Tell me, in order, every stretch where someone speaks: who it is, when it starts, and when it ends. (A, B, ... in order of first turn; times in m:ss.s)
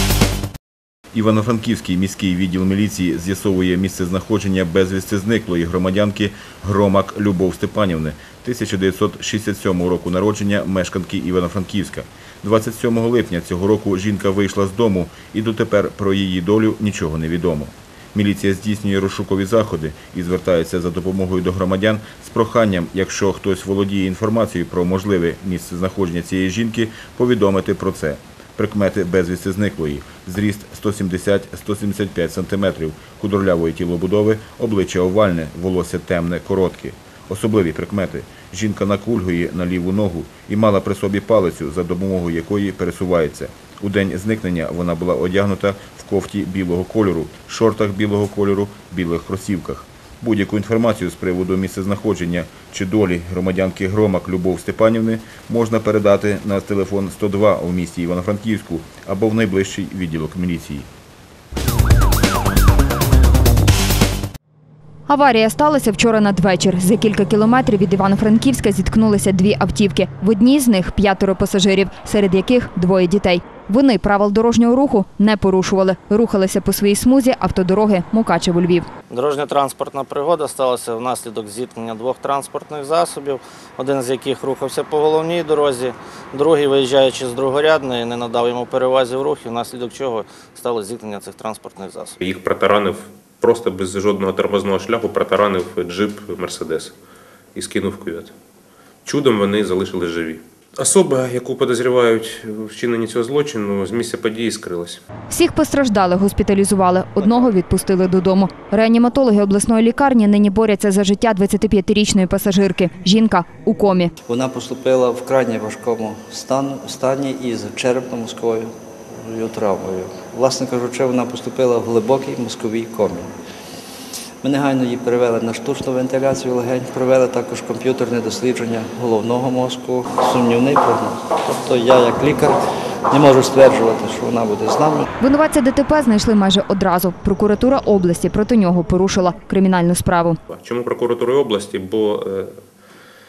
0:01.1-1:00.9 A
1:05.1-1:18.9 B
1:19.1-1:32.2 C
1:32.2-1:36.9 D
1:37.6-1:38.3 D
1:39.0-1:45.0 D
1:45.3-1:54.1 B
1:54.2-2:03.3 E
2:04.4-2:15.1 E
2:15.2-2:20.4 B
2:20.5-2:22.6 D